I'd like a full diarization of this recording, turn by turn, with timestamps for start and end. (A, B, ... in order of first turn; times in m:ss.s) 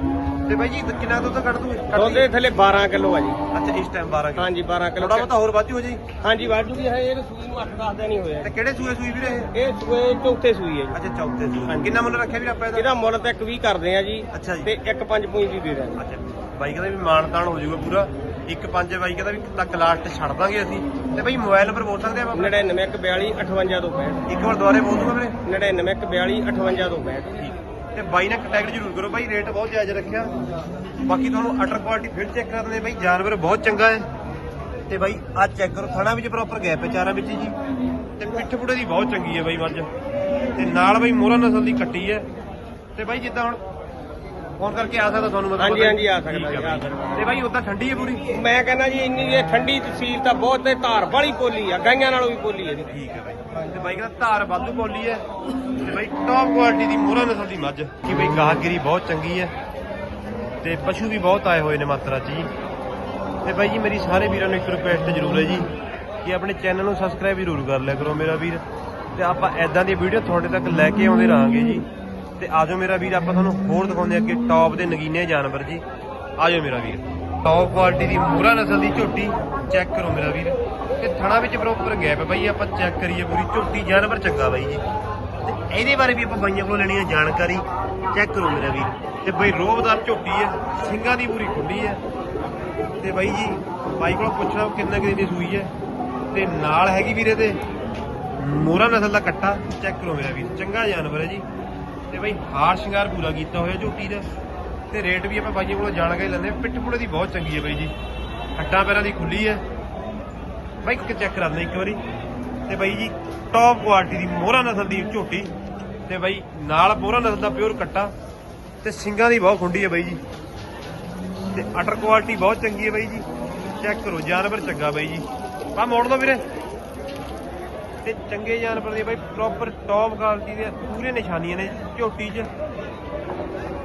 0:00.5-0:02.3 A
0:01.9-0:03.4 B
0:03.5-0:06.0 A
0:04.4-0:05.3 B
0:06.2-0:08.5 B
0:08.4-0:09.5 A
0:09.5-0:11.0 B
0:10.9-0:12.9 A
0:11.7-0:12.0 B
0:12.7-0:16.0 B
0:14.3-0:14.7 A
0:16.0-0:22.5 A
0:22.3-0:24.2 B
0:24.3-0:25.4 A
0:25.4-0:27.4 B
0:27.4-0:30.3 A
0:31.0-0:34.1 A
0:34.9-0:37.6 A
0:38.2-0:39.9 A
0:40.6-0:42.2 A
0:43.0-0:43.6 A
0:44.6-0:48.3 A
0:45.6-0:47.2 B
0:48.3-0:52.9 B
0:52.9-0:59.5 A
1:00.6-1:02.5 A
1:03.4-1:05.7 A
1:06.2-1:08.6 A
1:09.2-1:11.9 A
1:12.4-1:15.8 A
1:16.4-1:24.8 A
1:25.4-1:32.0 A
1:33.0-1:35.7 A
1:36.3-1:37.6 A
1:38.4-1:41.4 A
1:42.1-1:44.3 A
1:44.9-1:47.9 A
1:48.6-1:49.6 A
1:50.8-1:52.0 A
1:52.7-1:55.5 A
1:56.1-1:58.1 A
1:58.8-2:00.2 A
2:01.5-2:03.3 A
2:03.8-2:06.4 A
2:08.0-2:12.5 A